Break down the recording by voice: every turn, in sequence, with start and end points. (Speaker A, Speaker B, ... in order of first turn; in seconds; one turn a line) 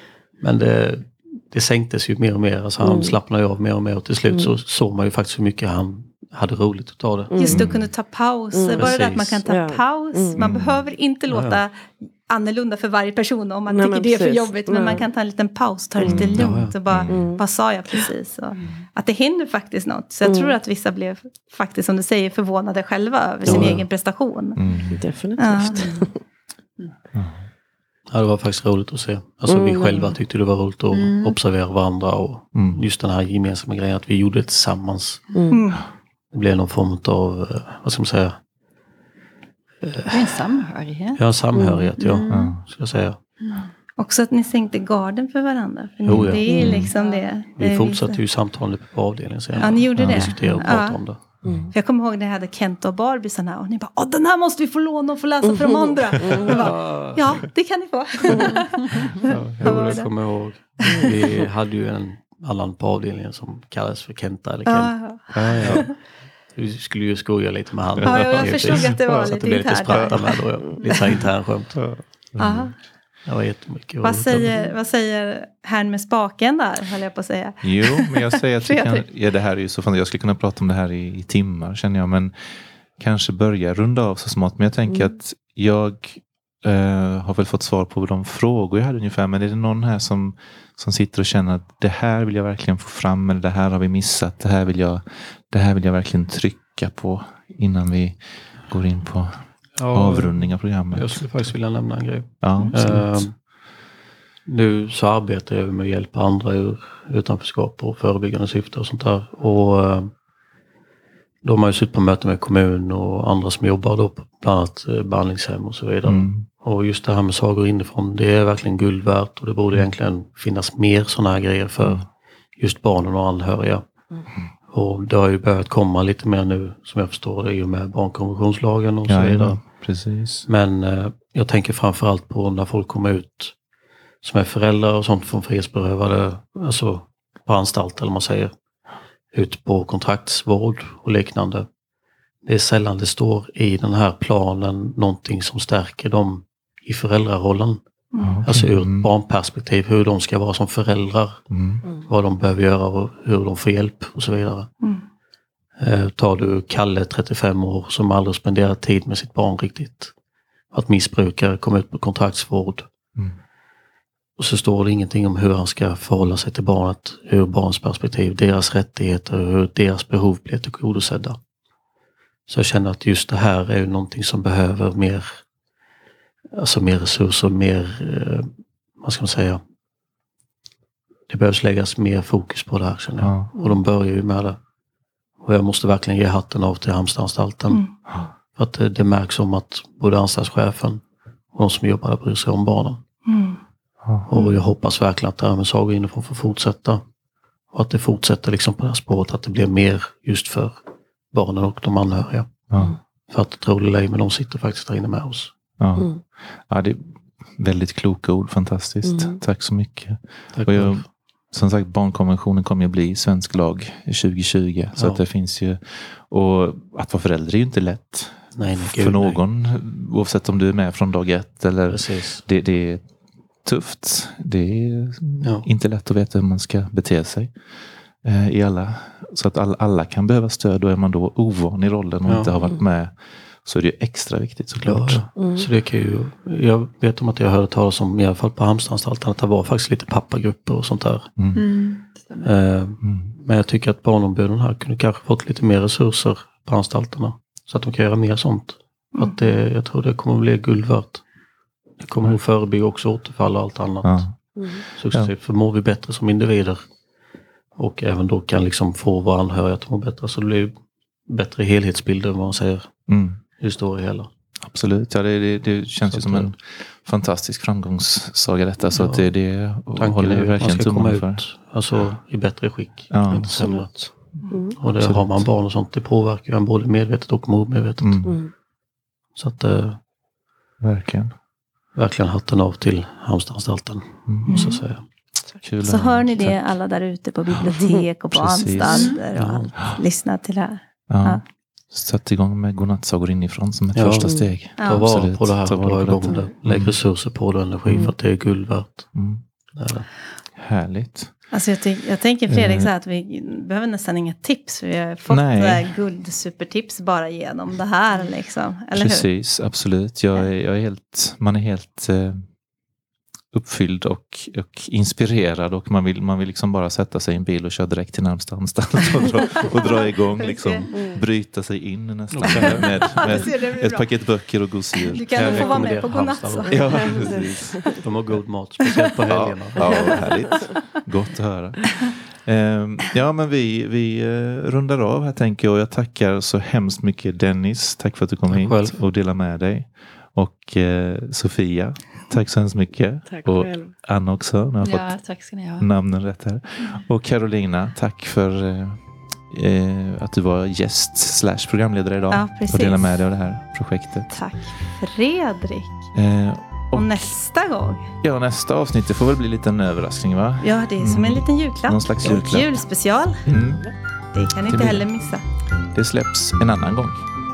Speaker A: 0.4-7.3
Speaker B: 2.8-3.2
Speaker B: 4.3-4.5
Speaker B: 7.3-7.7
Speaker C: 7.3-24.6
Speaker D: 7.5-7.9
Speaker B: 8.5-8.9
Speaker A: 8.7-9.4
Speaker B: 9.4-10.4
Speaker D: 10.4-10.8
Speaker A: 11.3-11.6
Speaker B: 13.7-15.0
Speaker D: 16.0-17.3
Speaker B: 16.0-16.4
Speaker A: 16.1-16.7
Speaker B: 17.1-18.1
Speaker B: 20.2-20.6
Speaker B: 23.4-23.8
Speaker A: 23.4-23.8
Speaker D: 23.5-23.9
Speaker D: 24.6-25.0
Speaker B: 24.9-26.2
Speaker C: 25.4-26.0
Speaker E: 25.7-26.1
Speaker D: 27.1-27.4
Speaker A: 28.1-35.3
Speaker B: 29.5-30.1
Speaker E: 30.9-31.4
Speaker D: 32.5-32.8
Speaker B: 35.3-35.6
Speaker C: 35.5-35.9
Speaker A: 36.3-38.4
Speaker A: 39.8-40.4
Speaker E: 40.1-41.2
Speaker A: 41.1-43.2
Speaker B: 41.5-41.9
Speaker E: 42.0-42.6
Speaker D: 42.3-42.6
Speaker C: 44.0-48.1
Speaker A: 46.0-46.8
Speaker D: 46.0-46.9
Speaker B: 46.5-46.8
Speaker E: 46.8-48.0
Speaker A: 47.6-51.2
Speaker C: 49.6-51.0
Speaker D: 50.0-50.4
Speaker E: 50.4-50.6
Speaker D: 51.4-51.7
Speaker C: 51.7-60.1
Speaker B: 55.5-56.6
Speaker A: 56.5-57.5
Speaker D: 59.2-59.9
Speaker A: 59.6-65.9
Speaker C: 60.8-61.3
Speaker C: 64.7-65.9
Speaker D: 65.3-65.9
Speaker A: 66.5-71.8
Speaker C: 68.0-71.2
Speaker D: 68.0-69.2
Speaker D: 71.8-72.7
Speaker C: 72.4-72.8
Speaker A: 73.2-74.6
Speaker C: 74.0-79.0
Speaker D: 77.6-101.5
Speaker A: 99.8-103.3
Speaker D: 102.4-103.3
Speaker A: 104.4-110.1
Speaker A: 111.4-123.8
Speaker D: 116.0-116.5
Speaker A: 124.7-129.7
Speaker D: 129.1-130.5
Speaker A: 130.4-133.6
Speaker A: 134.2-138.5
Speaker A: 139.3-141.7
Speaker A: 142.4-147.8
Speaker C: 148.1-148.4
Speaker D: 148.2-149.1
Speaker A: 148.4-154.7
Speaker D: 151.5-151.8
Speaker A: 155.8-160.1
Speaker A: 160.7-162.9
Speaker A: 164.4-171.4
Speaker A: 172.5-175.4
Speaker A: 176.5-179.6
Speaker A: 181.3-184.6
Speaker D: 183.2-183.5
Speaker A: 185.4-187.9
Speaker C: 187.7-187.9
Speaker A: 188.5-193.0
Speaker C: 193.2-193.6
Speaker A: 194.2-197.0
Speaker A: 197.7-202.7
Speaker D: 202.7-202.9
Speaker A: 203.3-205.5
Speaker D: 205.8-223.1
Speaker B: 206.0-206.2
Speaker B: 209.0-209.4
Speaker A: 210.5-211.1
Speaker A: 218.5-219.4
Speaker A: 221.9-222.4
Speaker D: 223.6-235.2
Speaker A: 225.4-225.7
Speaker A: 232.2-232.5
Speaker A: 234.8-241.3
Speaker B: 235.3-235.7
Speaker E: 241.5-242.5
Speaker A: 242.4-251.2
Speaker D: 243.0-243.3
Speaker A: 252.0-254.3
Speaker D: 254.0-255.3
Speaker B: 254.6-254.8
Speaker A: 254.9-256.8
Speaker A: 257.8-260.7
Speaker A: 261.3-262.9
Speaker D: 263.1-263.4
Speaker A: 263.6-264.3
Speaker D: 264.6-271.4
Speaker A: 266.1-266.5
Speaker A: 268.9-274.1
Speaker D: 273.1-275.5
Speaker B: 273.6-274.8
Speaker A: 274.7-278.2
Speaker D: 278.0-278.4
Speaker B: 278.2-278.5
Speaker A: 279.4-280.0
Speaker D: 280.8-281.3
Speaker A: 281.9-285.0
Speaker D: 284.3-284.7
Speaker C: 284.4-284.8
Speaker D: 285.6-286.6
Speaker C: 285.8-291.4
Speaker D: 288.3-289.1
Speaker E: 288.9-289.2
Speaker A: 289.3-289.8
Speaker D: 291.1-297.0
Speaker A: 293.9-299.1
Speaker B: 294.2-294.5
Speaker C: 294.8-295.1
Speaker D: 299.1-299.4
Speaker A: 299.7-300.1
Speaker D: 300.5-301.4
Speaker C: 301.5-309.3
Speaker D: 302.5-302.9
Speaker D: 305.3-305.9
Speaker D: 308.9-312.5
Speaker D: 313.5-325.9
Speaker C: 319.6-321.2
Speaker B: 320.9-321.2
Speaker A: 322.3-323.2
Speaker C: 322.4-324.1
Speaker C: 324.9-327.2
Speaker A: 325.3-330.1
Speaker D: 326.7-327.9
Speaker B: 326.8-328.0
Speaker D: 329.3-345.2
Speaker B: 329.8-330.5
Speaker A: 338.5-339.0
Speaker B: 343.2-343.9
Speaker E: 344.8-345.9
Speaker D: 345.8-354.4
Speaker C: 352.3-353.2
Speaker C: 354.3-356.1
Speaker D: 356.1-357.3
Speaker C: 356.9-358.1
Speaker D: 358.2-362.8
Speaker C: 360.6-363.4
Speaker D: 363.4-363.9
Speaker B: 363.6-363.9
Speaker C: 364.3-365.4
Speaker D: 364.6-365.0
Speaker D: 365.9-367.2